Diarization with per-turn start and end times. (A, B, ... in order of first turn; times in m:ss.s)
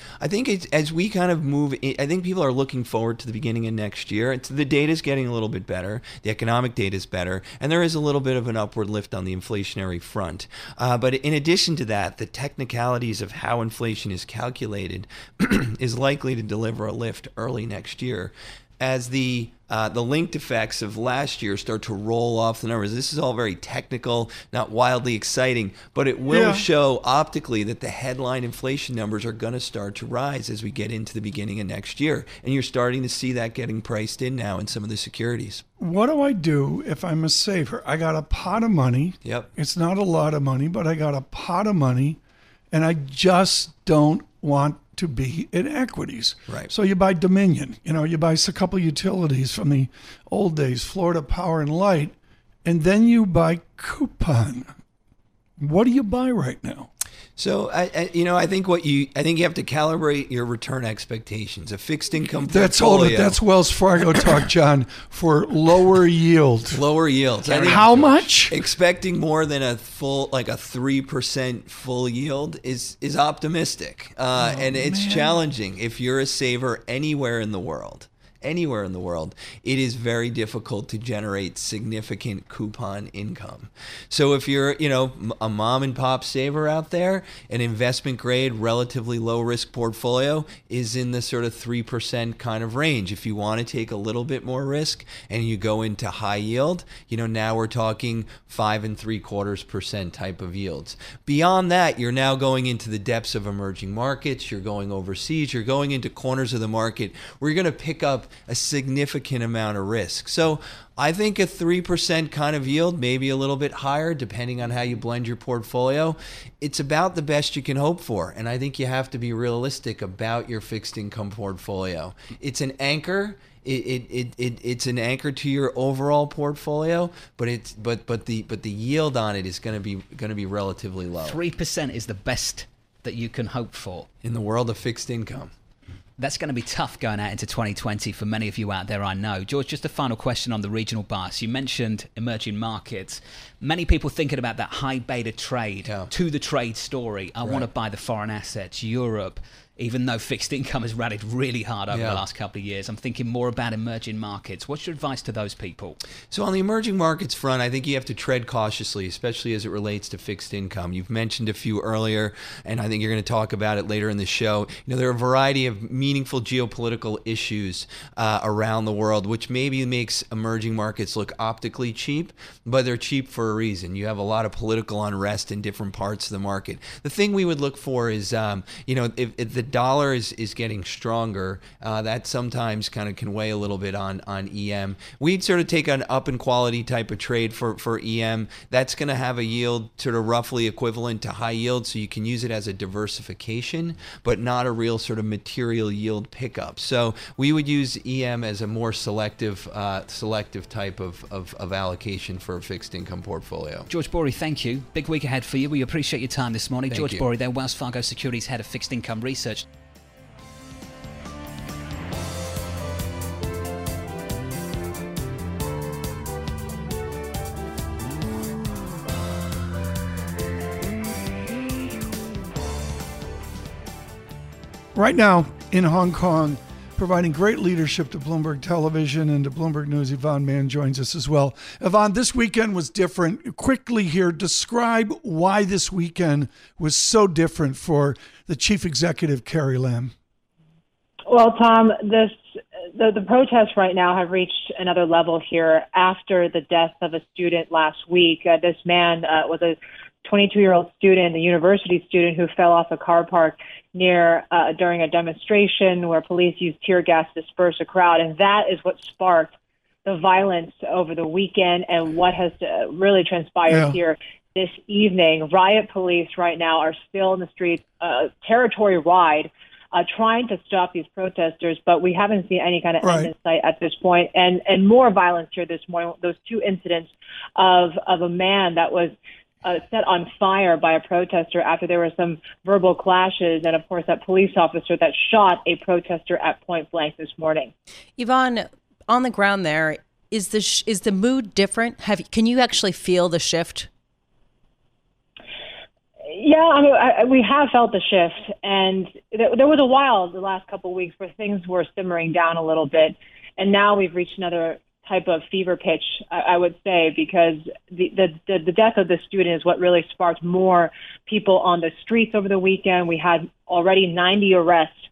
0:00.2-0:35.6 A
0:26.3-0:26.6 B
0:35.8-0:42.2 B
0:39.2-0:39.5 A
0:42.7-0:52.1 B
0:52.6-0:54.7 B
0:55.6-0:56.9 B
0:57.4-1:03.4 A
1:02.5-1:06.8 B
1:06.7-2:11.4 A
1:07.4-1:08.7 B
1:14.4-1:15.4 B
2:11.2-2:14.1 C
2:14.2-2:15.5 A
2:16.2-2:36.0 C
2:27.4-2:27.7 A
2:31.9-2:32.2 A
2:36.3-3:23.9 A
3:23.9-3:29.6 C
3:26.9-3:27.2 A
3:44.9-4:00.1 B
4:01.3-4:02.4 D
4:03.0-4:19.5 D
4:20.0-4:47.7 D
4:23.7-4:24.0 B
4:33.0-4:33.3 B
4:48.2-4:53.9 E
4:56.2-5:15.0 D